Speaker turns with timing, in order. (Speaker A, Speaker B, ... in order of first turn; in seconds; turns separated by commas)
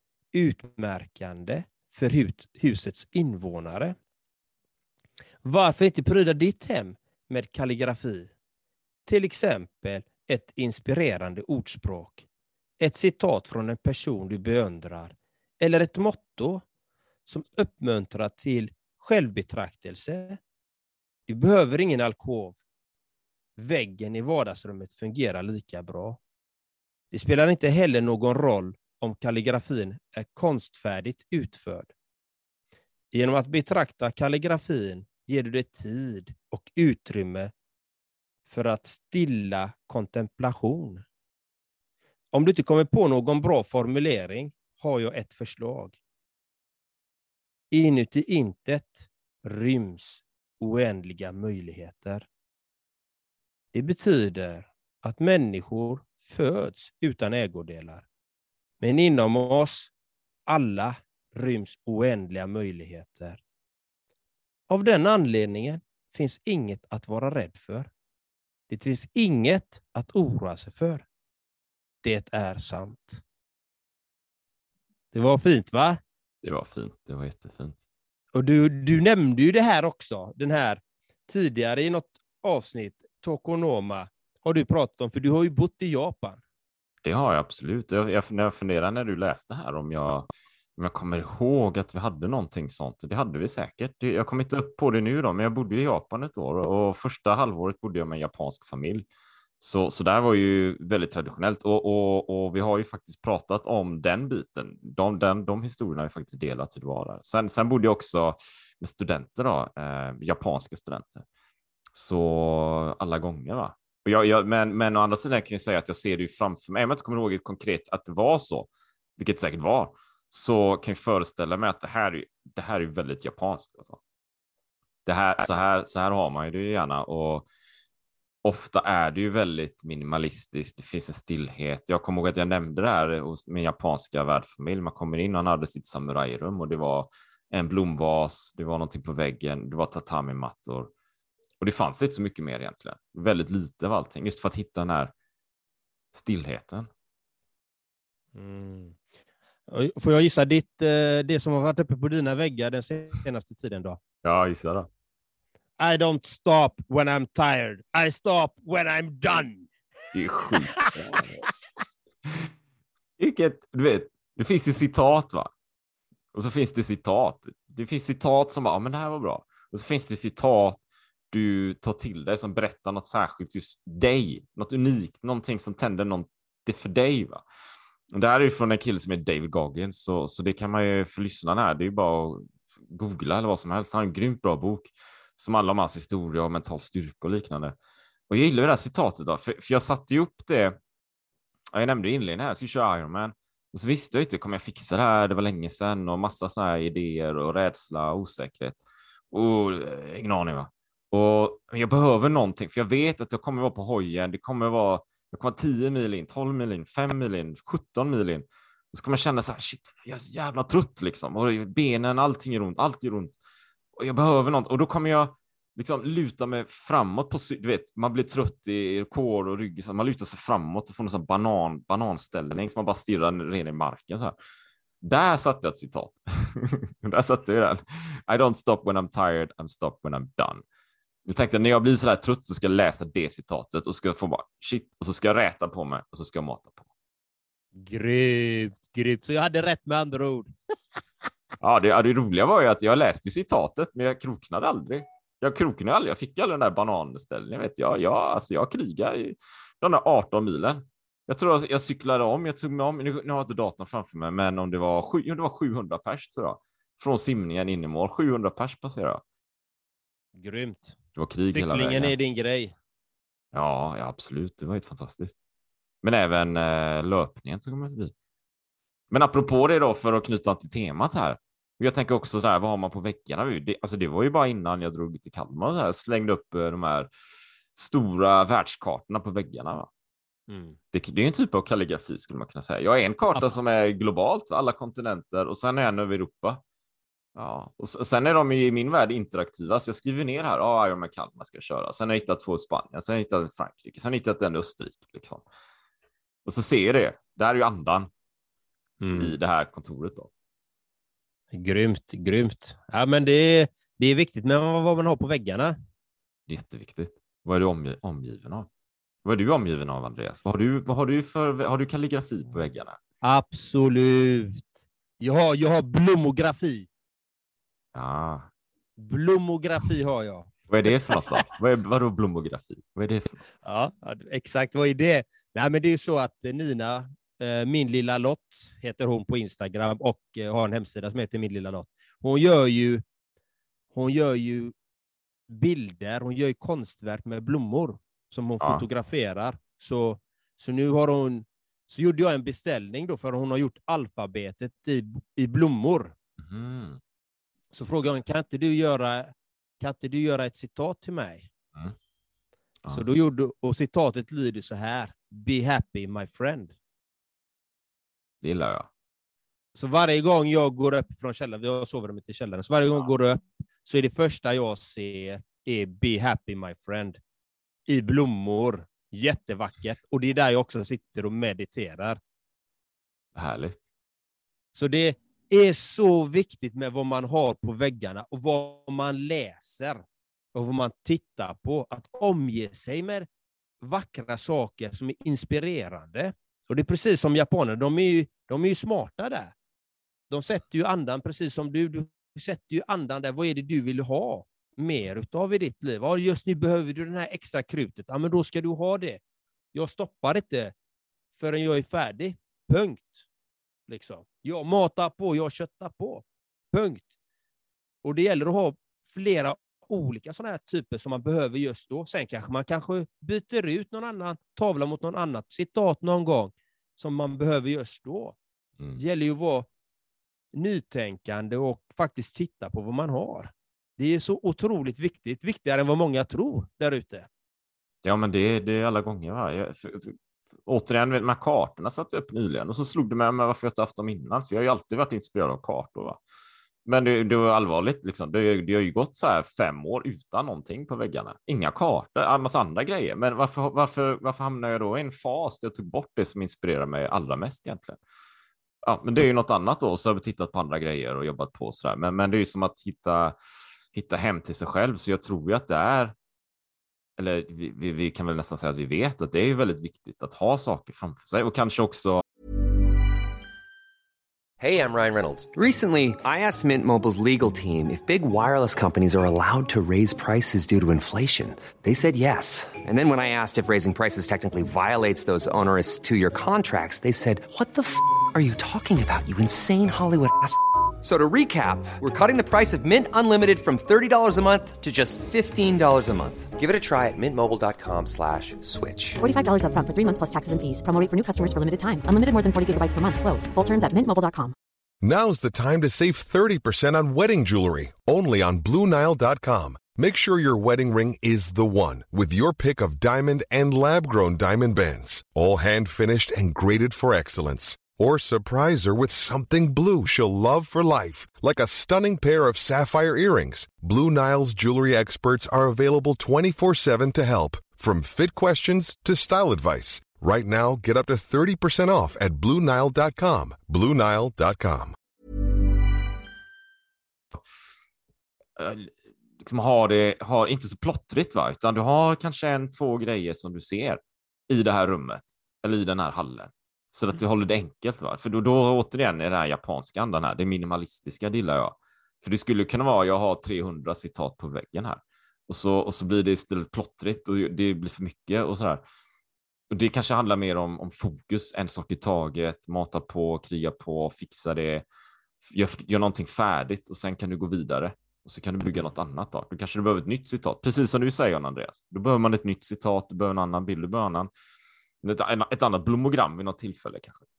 Speaker A: 0.3-4.0, Speaker A: 5.4-8.3, Speaker A: 9.1-12.2, Speaker A: 12.8-16.6, Speaker A: 17.3-20.4, Speaker A: 21.3-22.6, Speaker A: 23.6-26.2, Speaker A: 27.1-31.9, Speaker A: 33.1-37.5, Speaker A: 38.5-41.0, Speaker A: 42.3-46.0, Speaker A: 47.7-52.3, Speaker A: 53.7-58.0, Speaker A: 58.8-59.9, Speaker A: 60.5-63.4, Speaker A: 64.7-67.9, Speaker A: 68.7-71.0, Speaker A: 72.0-73.2, Speaker A: 75.1-76.0, Speaker B: 76.4-77.8, Speaker A: 78.3-86.4, Speaker B: 87.0-99.0, Speaker B: 99.6-111.2, Speaker B: 111.9-124.0, Speaker B: 125.0-127.5, Speaker B: 128.4-140.9, Speaker B: 141.6-145.1, Speaker B: 146.1-146.9, Speaker A: 148.3-149.0, Speaker A: 149.7-154.0, Speaker B: 154.2-154.9, Speaker A: 155.8-159.7, Speaker B: 160.1-161.4, Speaker B: 163.2-165.5, Speaker B: 166.3-177.4, Speaker B: 178.1-187.7, Speaker B: 188.3-190.8, Speaker B: 191.7-198.8, Speaker B: 199.3-213.3, Speaker B: 214.0-224.3, Speaker B: 225.0-230.6, Speaker B: 231.2-236.8, Speaker A: 237.8-240.5, Speaker B: 241.6-259.2, Speaker A: 260.4-260.9, Speaker B: 261.1-262.1, Speaker A: 261.5-262.7, Speaker B: 263.5-265.3, Speaker B: 266.0-268.1, Speaker B: 269.1-277.1, Speaker B: 277.7-279.9, Speaker A: 280.5-280.8, Speaker B: 280.9-286.6, Speaker B: 287.4-295.4, Speaker B: 296.4-298.1, Speaker A: 299.0-299.3, Speaker B: 299.1-300.3, Speaker A: 301.5-305.8, Speaker B: 306.5-308.7, Speaker B: 309.2-313.0, Speaker A: 313.2-316.9, Speaker B: 317.9-318.5, Speaker A: 319.0-320.5, Speaker B: 320.7-323.4, Speaker A: 323.6-333.0, Speaker A: 333.9-334.7, Speaker A: 335.5-346.1, Speaker B: 346.4-347.0, Speaker A: 347.7-351.5, Speaker A: 352.9-356.7, Speaker B: 358.4-358.9, Speaker A: 359.7-367.2, Speaker A: 367.9-372.2, Speaker B: 373.4-373.8, Speaker A: 374.7-380.0, Speaker A: 380.5-383.3, Speaker A: 383.8-389.5, Speaker A: 390.3-399.2, Speaker A: 399.7-400.7, Speaker A: 401.4-403.2, Speaker A: 403.9-407.1, Speaker A: 408.0-418.4, Speaker A: 419.0-419.7, Speaker A: 420.5-427.3, Speaker B: 428.0-430.1, Speaker B: 430.6-436.2, Speaker B: 436.9-448.0, Speaker B: 448.8-453.3, Speaker B: 453.9-456.1, Speaker B: 457.2-462.2, Speaker C: 464.6-489.2, Speaker D: 489.2-494.5, Speaker E: 495.0-524.9, Speaker B: 528.6-548.8, Speaker B: 549.7-554.8, Speaker B: 555.4-564.3, Speaker B: 565.0-567.2